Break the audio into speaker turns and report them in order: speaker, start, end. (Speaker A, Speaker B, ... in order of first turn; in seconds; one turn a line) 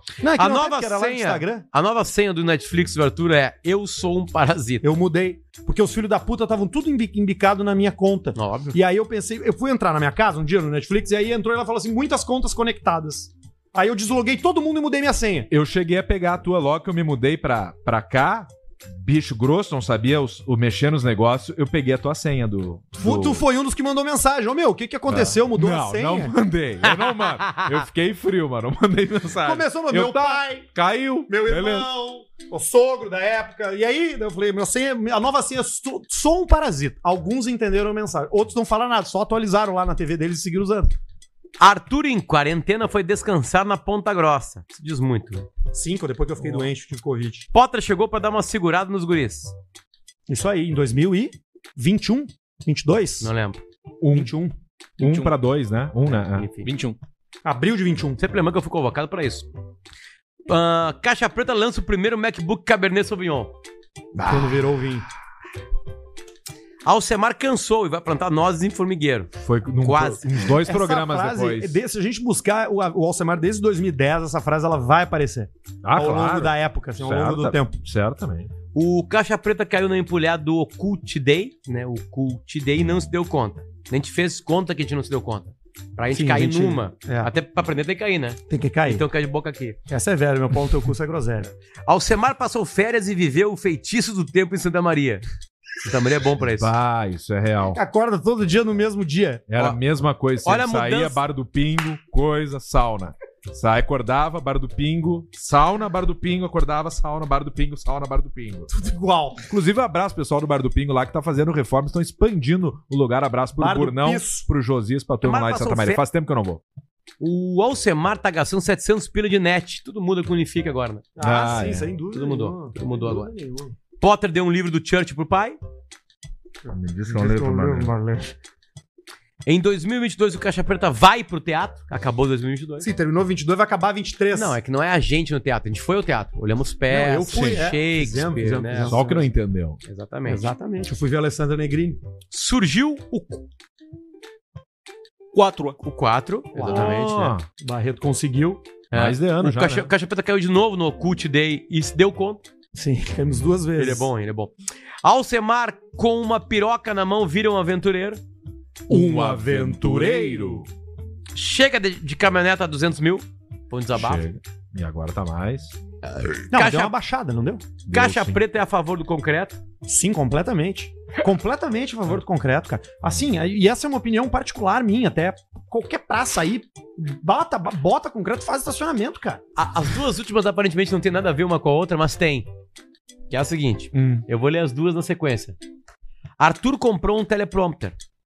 Speaker A: 0.2-1.6
Speaker B: 0.4-4.8
Speaker A: 4.8-15.5
Speaker B: 8.3-8.7
Speaker C: 15.5-23.4
Speaker A: 23.0-26.3
Speaker C: 25.1-31.9
Speaker B: 26.9-27.6
Speaker A: 29.4-30.7
Speaker A: 31.3-40.9
Speaker B: 41.6-45.5
Speaker A: 45.7-47.5
Speaker B: 47.5-49.5
Speaker A: 50.3-53.3
Speaker B: 53.2-53.6
Speaker C: 54.0-54.3
Speaker A: 54.1-54.5
Speaker C: 55.0-57.0
Speaker B: 56.3-56.7
Speaker A: 57.4-58.2
Speaker B: 58.2-59.5
Speaker B: 60.5-63.5
Speaker C: 64.1-64.7
Speaker A: 64.2-65.1
Speaker B: 66.8-69.3
Speaker C: 69.4-71.8
Speaker B: 69.8-70.2
Speaker A: 70.6-77.8
Speaker C: 75.8-78.5
Speaker B: 78.7-89.8
Speaker A: 86.1-87.3
Speaker A: 88.5-89.0
Speaker A: 89.9-91.5
Speaker B: 91.9-95.2
Speaker B: 95.8-96.7
Speaker C: 96.5-97.8
Speaker A: 97.7-99.4
Speaker C: 99.5-108.7
Speaker B: 100.4-101.2
Speaker A: 108.7-109.4
Speaker C: 109.5-116.6
Speaker A: 113.6-114.4
Speaker B: 115.2-116.0
Speaker B: 117.2-121.1
Speaker A: 121.2-123.7
Speaker C: 121.2-121.9
Speaker B: 122.1-123.3
Speaker B: 124.0-125.6
Speaker C: 126.7-128.0
Speaker A: 126.7-128.3
Speaker B: 129.4-132.9
Speaker A: 132.8-134.6
Speaker B: 134.3-139.2
Speaker A: 136.9-139.2
Speaker C: 137.3-137.7
Speaker C: 138.8-139.8
Speaker B: 139.8-140.4
Speaker A: 140.2-142.0
Speaker B: 142.3-143.4
Speaker B: 145.3-147.4
Speaker A: 146.6-146.9
Speaker C: 146.7-147.4
Speaker A: 147.6-148.6
Speaker B: 148.9-152.4
Speaker C: 148.9-149.9
Speaker A: 152.7-154.1
Speaker B: 153.8-154.5
Speaker B: 155.0-158.2
Speaker C: 158.9-160.7
Speaker A: 158.9-160.6
Speaker B: 161.3-164.2
Speaker C: 163.9-165.8
Speaker B: 166.1-166.9
Speaker A: 166.5-167.7
Speaker C: 167.8-168.4
Speaker B: 167.9-169.6
Speaker A: 169.8-179.4
Speaker B: 179.6-182.5
Speaker B: 183.3-185.6
Speaker C: 183.9-184.2
Speaker B: 186.4-187.9